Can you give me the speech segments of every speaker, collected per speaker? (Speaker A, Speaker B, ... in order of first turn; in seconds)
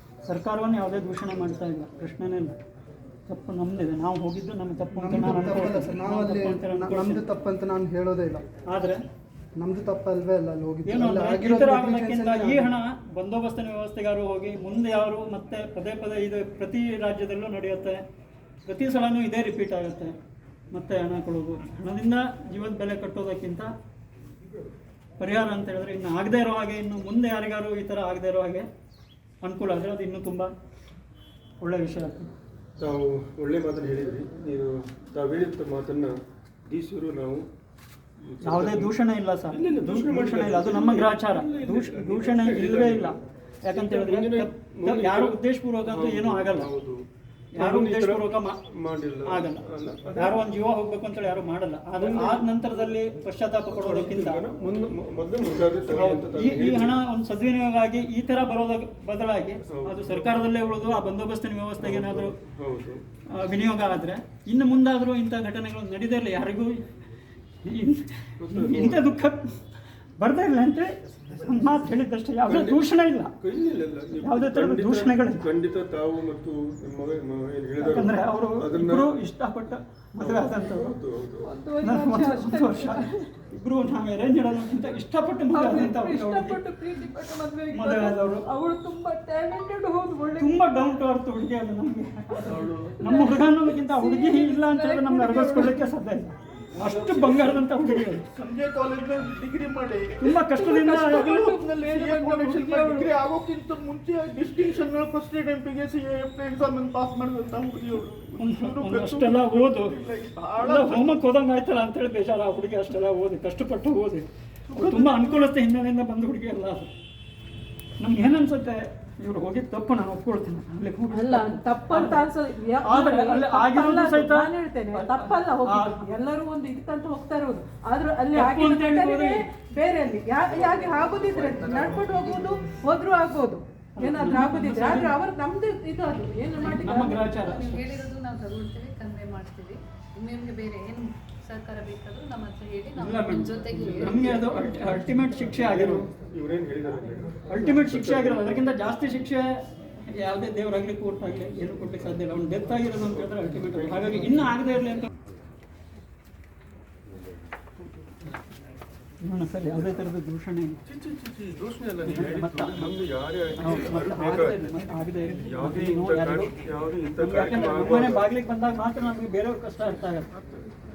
Speaker A: 0.2-2.5, 3.3-7.2, 8.7-9.0, 10.8-18.0, 18.6-20.1, 20.7-23.7, 25.2-28.6, 29.4-30.5, 31.6-32.3, 38.4-46.7, 47.5-48.6, 49.3-54.4, 55.9-62.3, 63.3-66.8, 67.6-69.6, 70.2-73.3, 74.2-75.5, 77.8-80.9, 81.8-86.6, 87.7-88.5, 90.4-98.3, 100.2-101.6, 108.4-110.0, 110.6-116.9, 118.0-122.2, 122.8-126.1, 128.3-129.4, 134.0-135.2, 136.6-137.9, 143.0-146.1, 147.5-155.1, 159.2-160.8, 162.0-162.9, 163.6-170.3
Speaker B: 4.9-8.4, 9.6-12.7
Speaker C: 32.8-36.1, 36.7-37.5, 38.2-38.9, 39.5-43.2, 43.7-47.0, 47.6-50.4, 52.0-52.5, 53.7-57.0, 59.7-60.5, 61.8-63.0, 68.4-69.0, 72.5-72.8, 73.4-79.1, 80.2-81.5, 130.6-132.2, 144.1-148.8, 153.1-154.5, 160.8-164.7, 165.4-168.3
Speaker D: 81.4-83.3, 85.4-91.0, 92.3-96.0, 100.2-103.1, 121.1-137.6
Speaker E: 92.4-93.0, 96.8-111.2, 114.7-115.5
Speaker F: 137.5-144.9